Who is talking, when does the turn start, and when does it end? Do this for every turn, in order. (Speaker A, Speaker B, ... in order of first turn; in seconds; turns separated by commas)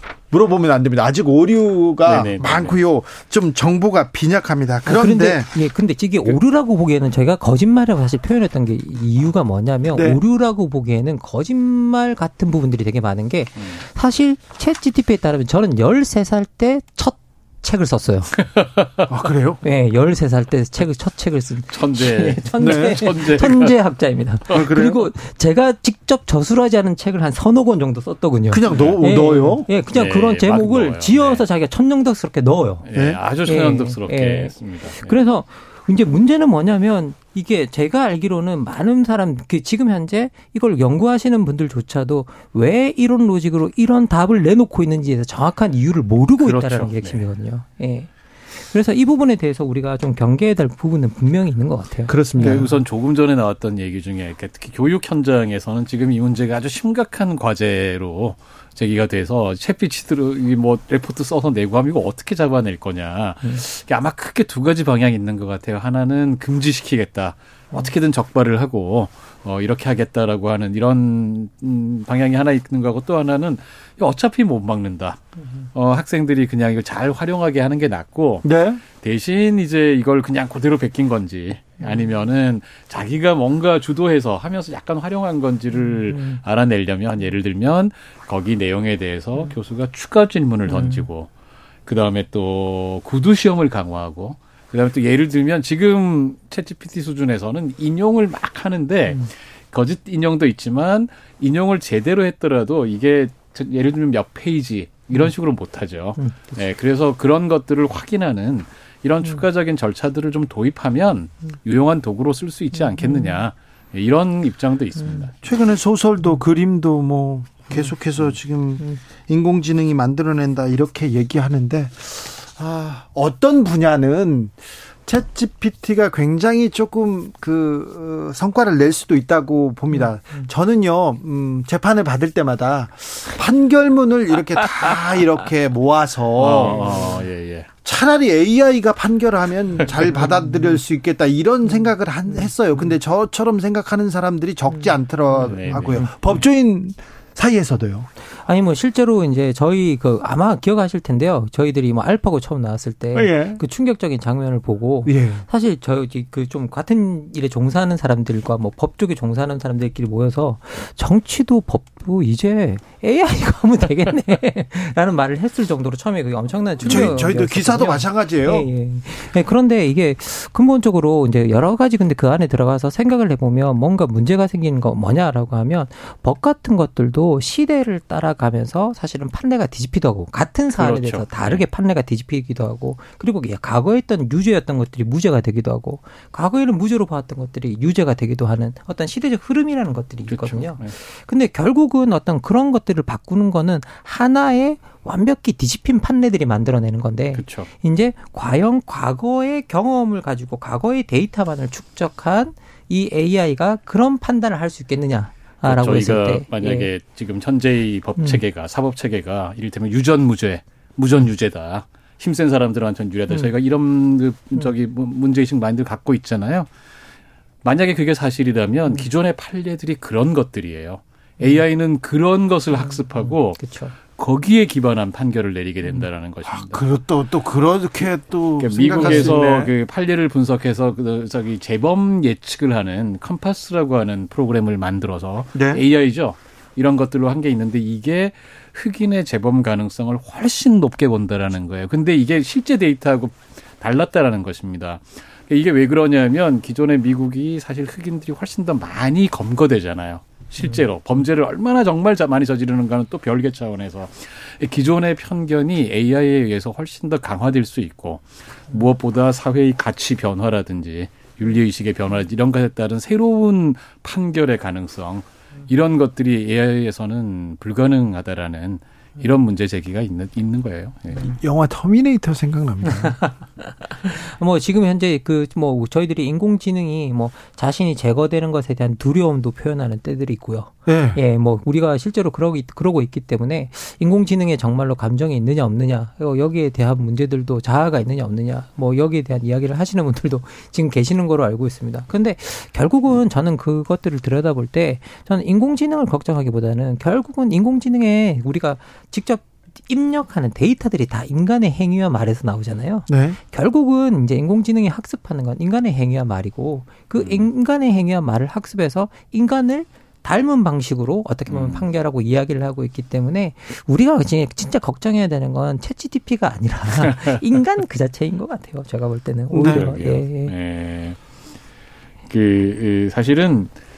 Speaker A: 0.3-5.5, Speaker B: 2.0-2.8, Speaker C: 4.8-18.3, Speaker A: 9.9-10.2, Speaker B: 18.4-19.0, Speaker A: 19.1-19.6, Speaker C: 19.6-32.8, Speaker B: 21.7-23.7, Speaker A: 22.6-23.0, Speaker A: 24.5-25.0, Speaker A: 28.5-29.7, Speaker B: 28.7-29.0, Speaker B: 29.9-31.4, Speaker B: 32.8-35.2, Speaker C: 33.4-52.8, Speaker B: 46.4-47.2, Speaker A: 52.1-52.6, Speaker B: 52.4-75.2, Speaker B: 75.7-91.3, Speaker A: 78.4-78.8, Speaker C: 86.0-86.4, Speaker C: 90.7-91.0, Speaker B: 91.8-115.3, Speaker C: 106.2-106.5, Speaker C: 112.9-113.4, Speaker A: 115.4-124.5, Speaker A: 125.0-137.1, Speaker B: 136.3-137.7, Speaker A: 137.8-148.1, Speaker B: 145.4-146.1, Speaker C: 148.4-206.9, Speaker A: 153.1-153.6, Speaker A: 155.1-155.4, Speaker B: 166.8-167.2, Speaker A: 166.8-168.7, Speaker B: 180.8-181.6, Speaker B: 190.3-190.9, Speaker B: 197.3-197.7, Speaker B: 205.7-216.7, Speaker B: 217.6-226.8, Speaker C: 222.8-223.9, Speaker A: 226.4-229.7, Speaker B: 228.6-271.3, Speaker C: 229.0-229.3, Speaker A: 235.5-235.8, Speaker A: 271.3-273.1, Speaker C: 273.0-320.5, Speaker A: 280.9-281.2, Speaker A: 303.1-303.4, Speaker B: 307.2-307.4, Speaker B: 311.5-311.8, Speaker A: 319.5-319.9, Speaker B: 319.6-321.2, Speaker B: 322.3-323.7